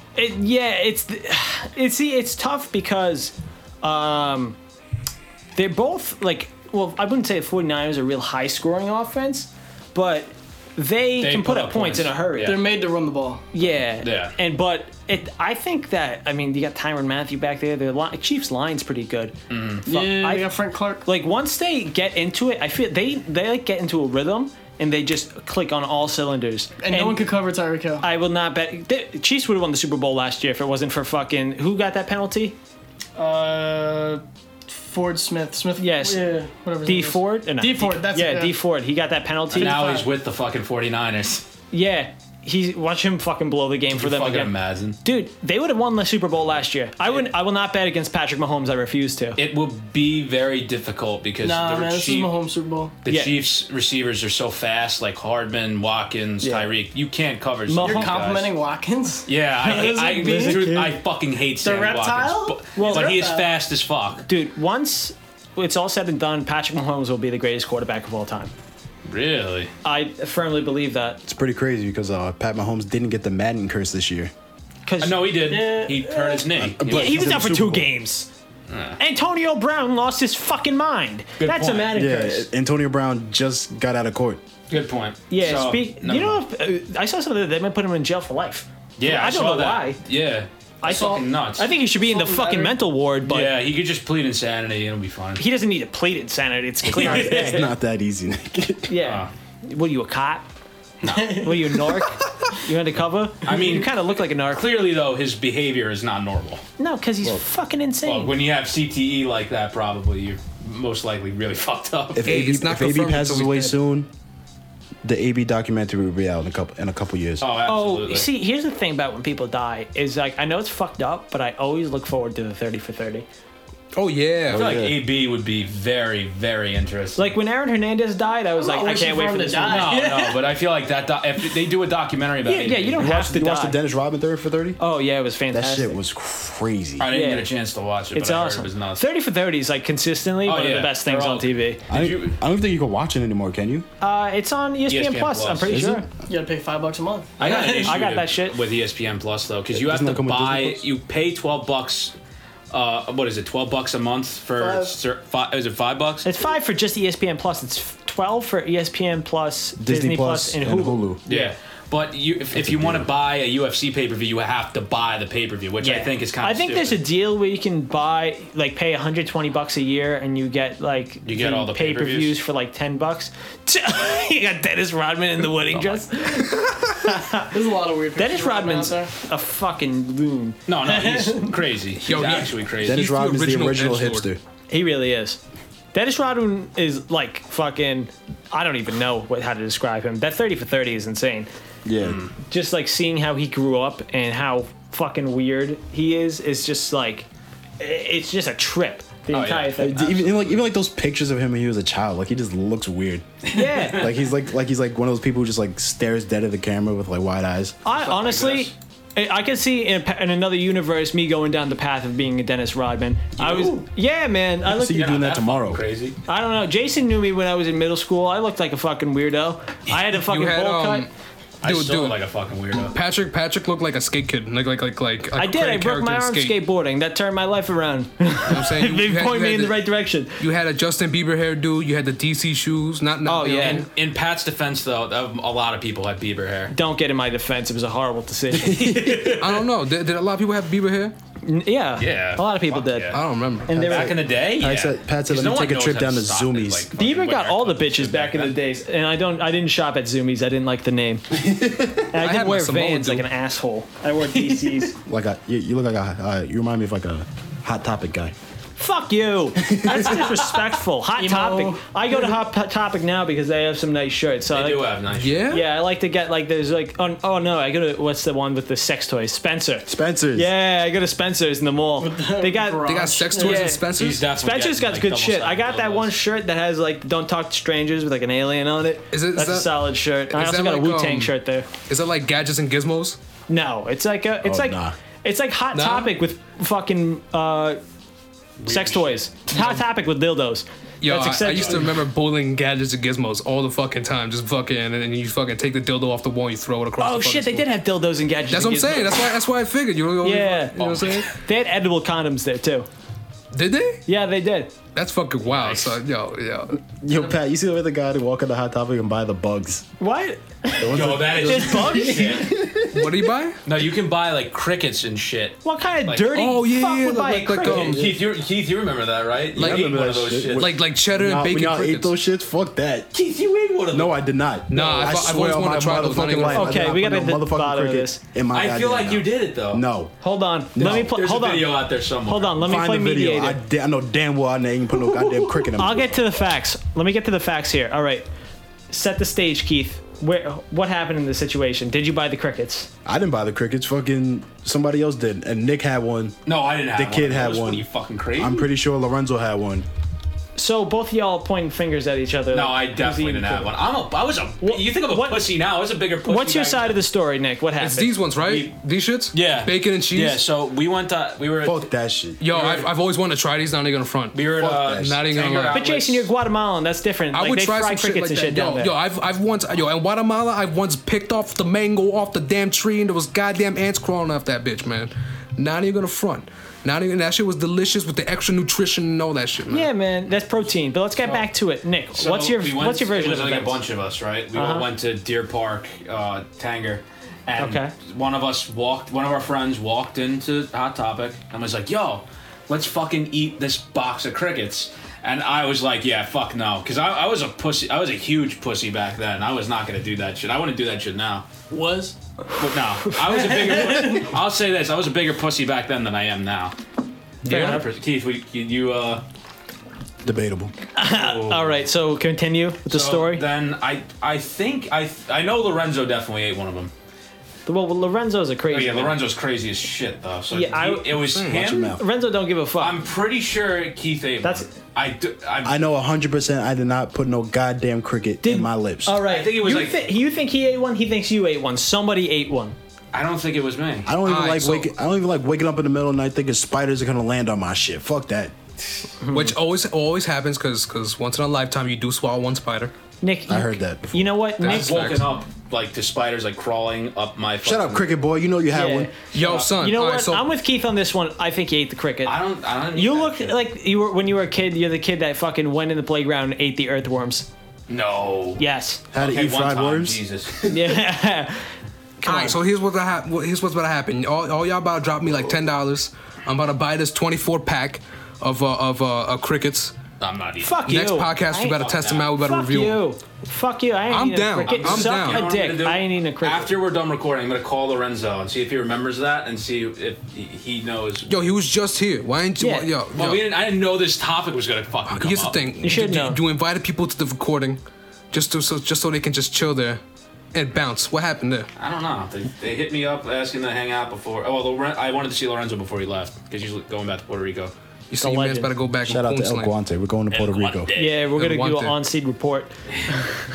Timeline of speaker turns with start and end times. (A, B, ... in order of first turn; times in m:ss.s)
0:00.2-0:04.6 A
0:05.6-0:12.6 A
0:11.2-0:12.6 B
0:12.4-0:13.4 C
0:13.5-0:20.5 A
0:14.0-0:14.3 B
0:19.5-0:19.8 B
0:19.8-0:21.0 C
0:21.0-0:27.3 A
0:26.8-0:28.0 C
0:28.0-0:32.6 A
0:33.2-0:38.6 C
0:35.8-0:36.3 A
0:36.8-0:40.0 A
0:39.5-0:41.4 B
0:39.6-0:40.0 C
0:41.7-0:49.4 A
0:43.9-0:45.0 B
0:49.4-0:52.3 B
0:51.4-0:52.9 C
0:53.0-0:58.5 B
0:53.1-0:53.4 A
0:56.4-0:56.7 A
0:57.7-0:58.2 A
0:57.8-1:00.8 C
0:59.3-1:04.2 B
0:59.6-1:01.0 A
1:01.6-1:03.5 C
1:02.7-1:03.2 A
1:04.3-1:08.5 A
1:09.0-1:09.7 B
1:09.8-1:11.2 A
1:11.2-1:14.3 D
1:14.8-1:15.4 A
1:15.0-1:17.3 B
1:15.4-1:16.5 C
1:16.6-1:17.9 D
1:16.8-1:18.3 A
1:18.7-1:19.0 B
1:19.0-1:22.5 A
1:21.4-1:21.9 B
1:21.9-1:24.4 D
1:24.7-1:26.4 B
1:25.3-1:30.0 A
1:29.0-1:31.7 B
1:30.8-1:33.5 A
1:30.8-1:31.2 C
1:31.9-1:32.8 C
1:33.2-1:35.4 B
1:35.4-1:37.7 A
1:36.8-1:38.9 D
1:36.9-1:37.6 B
1:38.9-1:40.5 A
1:39.0-1:39.3 B
1:41.0-1:41.5 B
1:41.1-1:41.5 C
1:41.2-1:44.6 A
1:43.4-1:46.6 B
1:46.8-1:48.3 A
1:48.0-1:52.3 B
1:52.1-1:54.1 D
1:52.2-1:53.7 E
1:55.0-1:57.4 D
1:57.4-1:58.3 B
1:57.6-2:03.2 A
2:03.9-2:04.7 E
2:04.4-2:05.1 D
2:04.5-2:07.3 B
2:07.2-2:10.0 A
2:08.6-2:10.4 C
2:09.6-2:13.1 B
2:12.4-2:13.8 A
2:13.0-2:14.8 D
2:14.8-2:16.0 A
2:15.5-2:17.1 D
2:17.0-2:19.0 B
2:17.1-2:17.5 A
2:18.1-2:21.8 A
2:20.4-2:22.4 B
2:21.9-2:23.9 D
2:24.0-2:26.1 A
2:24.9-2:25.8 B
2:25.7-2:26.0 D
2:26.3-2:28.0 C
2:27.4-2:32.1 B
2:27.4-2:28.6 A
2:29.7-2:30.8 D
2:32.7-2:36.2 B
2:34.6-2:34.9 C
2:36.2-2:41.5 A
2:39.8-2:41.2 D
2:41.3-2:47.0 B
2:42.5-2:43.1 D
2:45.8-2:57.5 A
2:51.2-2:52.4 B
2:55.7-2:56.0 B
2:57.5-2:59.1 C
2:58.2-3:00.6 A
3:00.7-3:03.1 B
3:00.8-3:01.6 C
3:02.0-3:04.3 E
3:02.8-3:04.4 D
3:04.7-3:05.4 A
3:05.9-3:11.5 A
3:11.8-3:12.2 D
3:12.0-3:12.3 B
3:12.5-3:17.3 A
3:17.8-3:20.0 A
3:19.3-3:20.5 B
3:19.8-3:27.8 D
3:23.5-3:24.1 A
3:27.8-3:35.0 A
3:27.9-3:28.7 B
3:33.4-3:33.8 B
3:34.6-3:35.8 D
3:34.9-3:36.2 B
3:36.3-3:41.1 A
3:40.2-3:41.1 E
3:41.6-3:42.9 B
3:41.6-3:42.2 E
3:42.9-3:46.6 E
3:45.4-3:50.4 A
3:48.4-3:49.8 E
3:50.4-3:53.9 E
3:53.2-3:53.9 A
3:53.6-3:56.7 B
3:56.7-3:59.4 A
3:58.5-3:59.4 D
3:58.9-3:59.3 B
3:59.4-4:01.1 E
4:01.4-4:04.2 A
4:02.0-4:03.2 B
4:03.1-4:03.8 E
4:03.7-4:06.9 D
4:03.7-4:08.6 B
4:07.0-4:11.4 A
4:11.4-4:12.0 D
4:12.1-4:14.9 A
4:12.2-4:13.3 E
4:14.3-4:14.8 B
4:15.0-4:18.3 D
4:18.8-4:24.9 A
4:19.6-4:20.2 D
4:21.2-4:22.4 C
4:24.5-4:25.6 B
4:25.1-4:25.6 E
4:25.5-4:41.7 A
4:29.9-4:30.5 D
4:32.0-4:33.6 C
4:32.8-4:34.2 E
4:33.9-4:36.1 B
4:39.1-4:43.2 E
4:43.5-4:47.8 A
4:44.4-4:44.9 D
4:45.7-4:46.1 E
4:48.6-4:49.7 B
4:48.6-4:51.9 A
4:51.0-4:57.7 E
4:57.0-4:59.3 A
4:58.5-5:01.3 E
5:00.2-5:02.9 A
5:00.8-5:01.3 B
5:03.5-5:04.0 E
5:04.0-5:04.7 A
5:04.9-5:06.8 E
5:05.4-5:06.0 B
5:07.0-5:09.9 D
5:10.0-5:12.5 A
5:10.8-5:13.3 D
5:10.9-5:12.6 B
5:12.9-5:13.6 E
5:13.6-5:16.3 B
5:15.6-5:18.0 A
5:16.3-5:18.1 E
5:17.6-5:20.7 B
5:19.6-5:23.1 D
5:19.6-5:20.0 E
5:20.5-5:22.1 E
5:23.1-5:24.2 B
5:23.9-5:30.1 D
5:24.7-5:26.8 E
5:26.5-5:28.2 A
5:28.5-5:29.8 B
5:30.2-5:33.6 A
5:30.7-5:31.1 D
5:30.8-5:32.7 B
5:32.6-5:36.2 D
5:35.8-5:38.3 A
5:38.9-5:42.9 A
5:43.0-5:46.4 D
5:46.4-5:48.7 B
5:46.9-5:49.8 D
5:50.6-5:53.7 A
5:52.5-5:57.0 B
5:54.6-5:55.5 A
5:56.2-5:58.2 A
5:57.8-6:00.4 E
5:58.4-5:58.8 B
5:59.3-6:01.8 B
6:01.6-6:02.4 D
6:02.4-6:05.8 E
6:02.5-6:02.9 B
6:04.3-6:06.3 B
6:04.6-6:05.2 D
6:05.7-6:08.9 A
6:07.3-6:19.9 E
6:19.7-6:23.8 A
6:21.2-6:21.5 B
6:22.1-6:41.4 B
6:24.5-6:24.9 A
6:27.6-6:27.9 A
6:41.7-6:42.1 C
6:42.6-6:46.8 B
6:43.3-6:44.3 C
6:47.4-6:47.8 E
6:47.5-6:47.8 A
6:47.5-6:49.2 B
6:50.2-6:50.7 D
6:50.9-6:53.4 A
6:51.1-6:51.8 B
6:52.9-6:56.9 B
6:57.6-6:59.2 A
6:58.7-7:02.0 B
7:00.5-7:03.0 A
7:01.3-7:02.0 D
7:02.8-7:05.8 B
7:04.4-7:04.7 A
7:05.6-7:09.2 D
7:08.4-7:12.8 A
7:09.2-7:10.0 B
7:13.1-7:14.1 B
7:14.0-7:18.9 D
7:14.2-7:14.9 E
7:19.2-7:19.5 A
7:19.3-7:22.9 E
7:23.2-7:25.2 A
7:23.5-7:24.3 D
7:24.6-7:28.1 B
7:24.6-7:25.3 E
7:27.6-7:29.1 D
7:28.7-7:32.4 A
7:29.3-7:29.7 B
7:29.3-7:30.5 E
7:32.2-7:33.5 B
7:32.9-7:37.5 A
7:37.9-7:38.6 B
7:38.6-7:39.0 A
7:39.1-7:40.2 D
7:39.1-7:40.7 B
7:40.6-7:41.7 A
7:42.2-7:42.6 A
7:42.2-7:49.9 E
7:50.2-7:50.8 B
7:50.6-7:51.8 A
7:50.8-7:53.1 E
7:51.6-7:52.3 B
7:52.4-7:56.7 A
7:54.1-7:55.5 E
7:54.7-8:01.3 B
8:01.3-8:03.4 E
8:02.6-8:02.9 A
8:03.1-8:05.6 B
8:05.1-8:07.8 E
8:05.8-8:06.4 A
8:08.3-8:10.0 E
8:10.5-8:11.7 E
8:11.8-8:17.7 B
8:18.1-8:19.7 E
8:18.2-8:18.8 A
8:19.0-8:20.9 D
8:20.3-8:21.2 B
8:21.0-8:22.7 A
8:21.3-8:22.0 E